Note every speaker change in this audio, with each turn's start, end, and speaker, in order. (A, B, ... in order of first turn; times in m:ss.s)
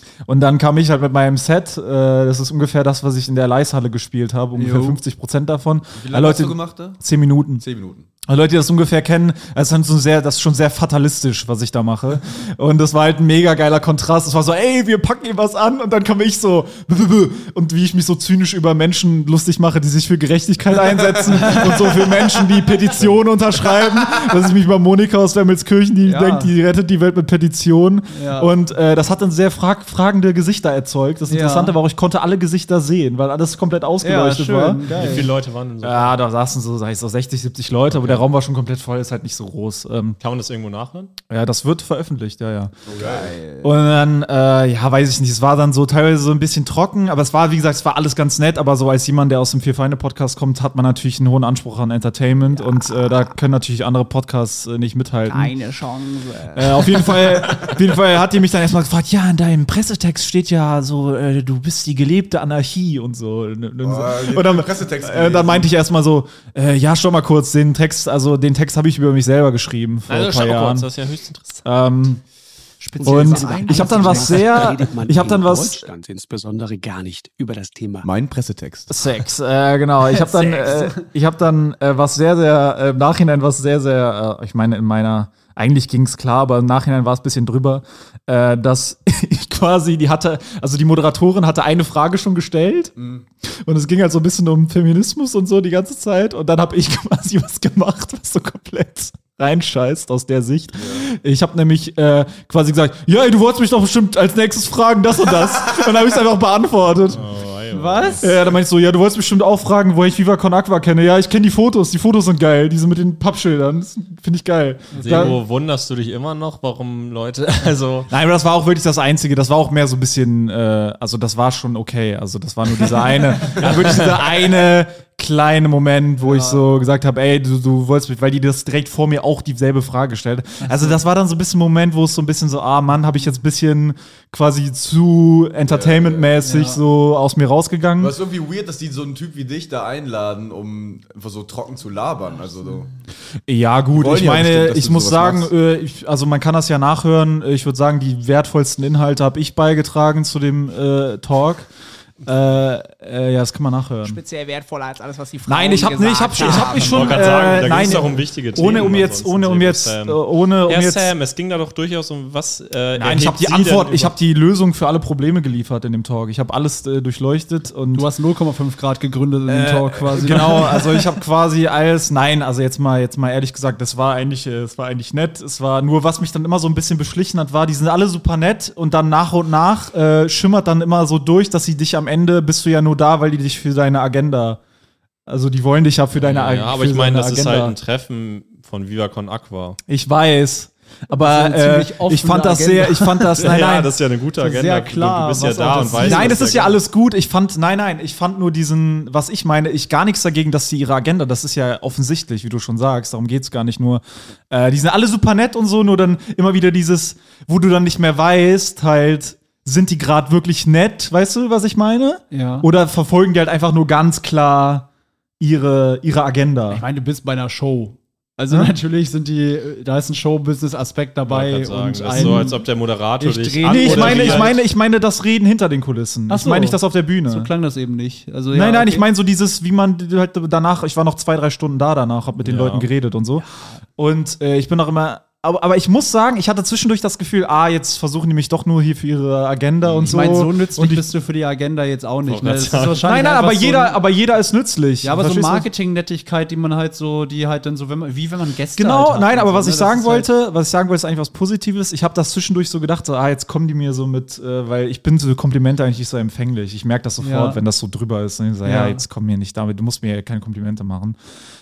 0:00.3-0:07.6 A
0:04.6-0:05.0 B
0:06.0-0:07.0 C
0:07.6-0:08.1 C
0:08.3-0:35.3 A
0:21.5-0:22.1 B
0:26.0-0:26.5 B
0:28.1-0:28.5 B
0:31.3-0:31.8 B
0:34.0-0:35.3 B
0:34.9-0:36.2 D
0:35.8-0:40.2 A
0:37.9-0:38.2 D
0:40.2-0:41.1 D
0:41.3-0:42.7 A
0:42.9-0:43.4 C
0:43.2-0:43.6 B
0:43.6-0:55.5 A
0:55.3-0:57.1 E
0:56.5-1:10.9 A
1:03.8-1:05.7 C
1:10.1-1:11.6 D
1:11.6-1:12.2 A
1:13.0-1:18.1 F
1:13.0-1:14.5 E
1:13.0-1:15.9 A
1:13.1-1:13.7 B
1:18.0-1:18.9 C
1:18.9-1:47.2 A
1:20.5-1:20.8 E
1:33.0-1:33.2 C
1:40.8-1:41.0 C
1:47.1-1:48.2 D
1:47.7-1:48.3 B
1:48.2-1:55.4 A
1:54.9-1:55.4 B
1:55.0-1:58.1 D
1:58.1-2:18.2 A
2:03.5-2:04.2 D
2:06.2-2:06.7 B
2:10.6-2:11.0 B
2:15.7-2:16.3 C
2:16.4-2:16.8 B
2:18.0-2:22.9 C
2:23.5-2:31.7 A
2:23.9-2:25.5 C
2:32.2-2:34.2 A
2:34.0-2:37.7 E
2:35.5-2:41.1 A
2:36.4-2:44.1 D
2:43.0-2:48.1 A
2:47.9-2:50.8 B
2:49.5-2:50.9 C
2:50.2-3:04.6 A
3:05.3-3:07.8 A
3:06.2-3:09.8 D
3:09.9-3:13.9 A
3:11.1-3:13.4 B
3:13.4-3:16.8 D
3:14.4-3:16.4 B
3:16.0-3:34.9 A
3:32.3-3:32.7 B
3:35.4-3:36.8 A
3:36.7-3:42.7 B
3:41.2-3:44.5 D
3:42.1-3:42.5 A
3:43.2-3:44.6 B
3:43.6-3:47.5 A
3:46.3-3:49.0 B
3:48.5-3:53.4 A
3:52.4-3:52.9 D
3:53.4-3:53.8 B
3:54.0-4:01.0 A
3:59.8-4:00.2 D
4:00.1-4:04.0 B
4:02.2-4:03.0 D
4:03.0-4:05.7 A
4:05.0-4:10.3 B
4:08.8-4:21.2 A
4:17.2-4:17.6 B
4:18.6-4:19.0 B